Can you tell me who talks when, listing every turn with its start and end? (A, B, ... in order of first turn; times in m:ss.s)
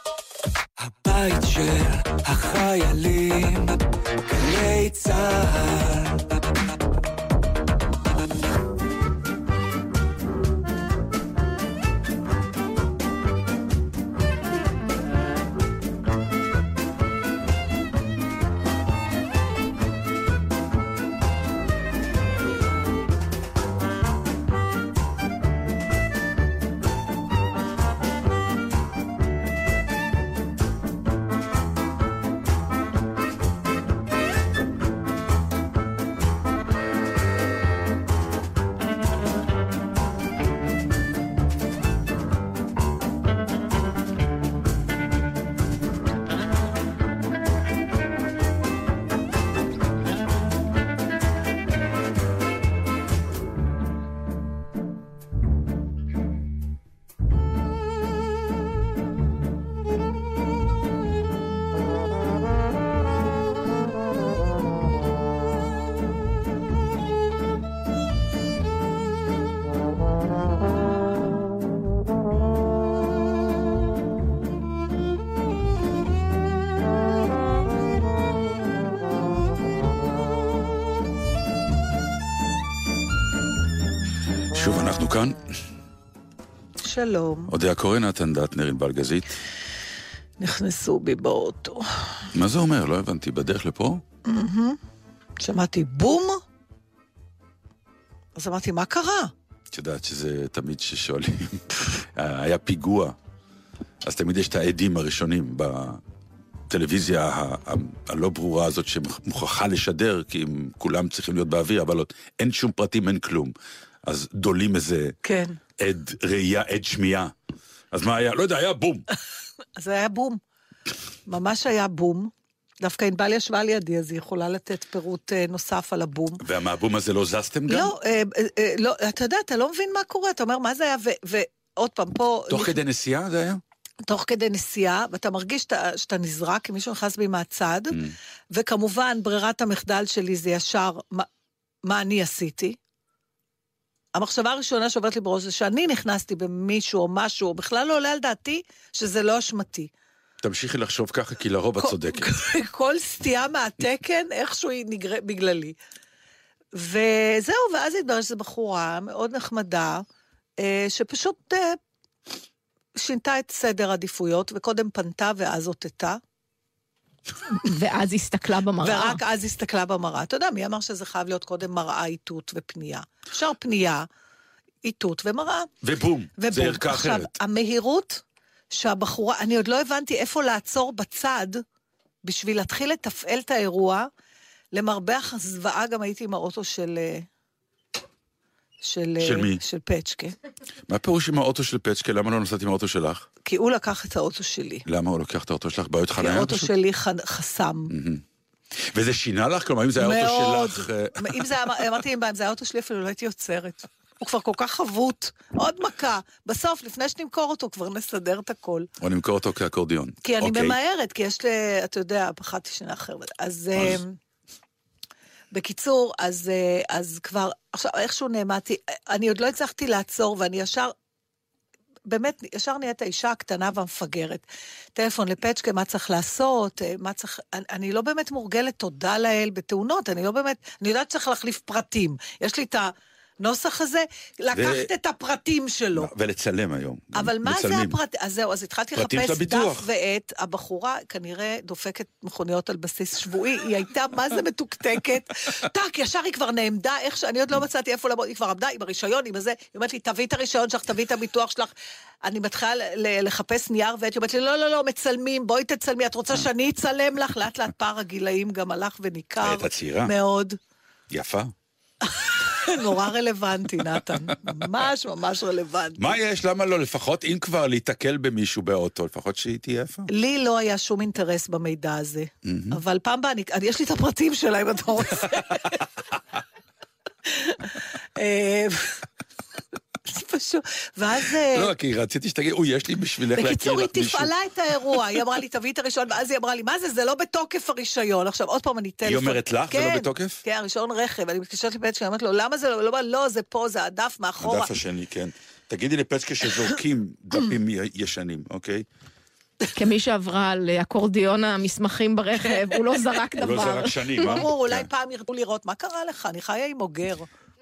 0:00.8-0:03.8 A
0:04.3-0:06.4 A
1:24.5-1:25.4 B
1:26.8-1:27.5 C
1:27.5-1:29.4 B
1:30.4-1:31.9 C
1:32.3-1:34.0 B
1:34.3-1:34.8 C
1:35.4-1:36.4 C
1:38.4-1:39.3 C
1:39.7-1:43.2 B
1:44.0-1:46.0 B
1:46.7-1:53.5 B
1:54.1-1:55.2 B
1:55.2-1:55.6 C
1:55.8-1:57.3 B
1:57.9-1:59.0 B
1:59.8-2:00.4 C
2:01.3-2:06.4 C
2:06.4-2:07.9 B
2:07.7-2:12.8 C
2:12.5-2:13.6 B
2:14.1-2:18.0 C
2:18.5-2:21.3 C
2:21.9-2:22.8 C
2:24.1-2:29.9 C
2:30.4-2:32.3 B
2:31.8-2:35.8 C
2:36.8-2:40.0 C
2:40.6-2:41.8 C
2:43.0-2:46.2 C
2:47.6-2:49.2 D
2:48.8-2:54.1 C
2:54.8-2:55.7 C
2:55.8-2:57.3 B
2:56.4-3:01.6 C
3:02.2-3:04.1 C
3:04.7-3:07.3 C
3:08.8-3:10.4 C
3:09.2-3:09.6 B
3:10.9-3:13.3 B
3:13.4-3:14.9 C
3:14.9-3:16.7 B
3:16.2-3:17.9 C
3:17.9-3:18.2 B
3:18.9-3:21.5 B
3:20.0-3:28.9 C
3:29.0-3:30.8 B
3:30.2-3:34.2 C
3:35.5-3:40.9 C
3:42.1-3:44.4 C
3:45.0-3:56.1 C
3:54.5-3:54.9 B
3:56.0-3:58.0 B
3:57.1-4:11.7 C
3:59.0-3:59.8 B
4:12.2-4:20.6 C
4:19.4-4:20.1 B
4:21.1-4:21.5 B
4:22.0-4:26.2 C
4:26.0-4:30.1 B
4:30.1-4:35.7 C
4:32.5-4:32.8 B
4:37.3-4:39.1 C
4:40.1-4:41.7 C
4:41.5-4:44.3 B
4:43.4-4:54.8 C
4:49.0-4:50.4 B
4:54.4-4:58.9 B
4:59.8-5:04.4 D
5:03.4-5:04.9 B
5:04.2-5:07.3 C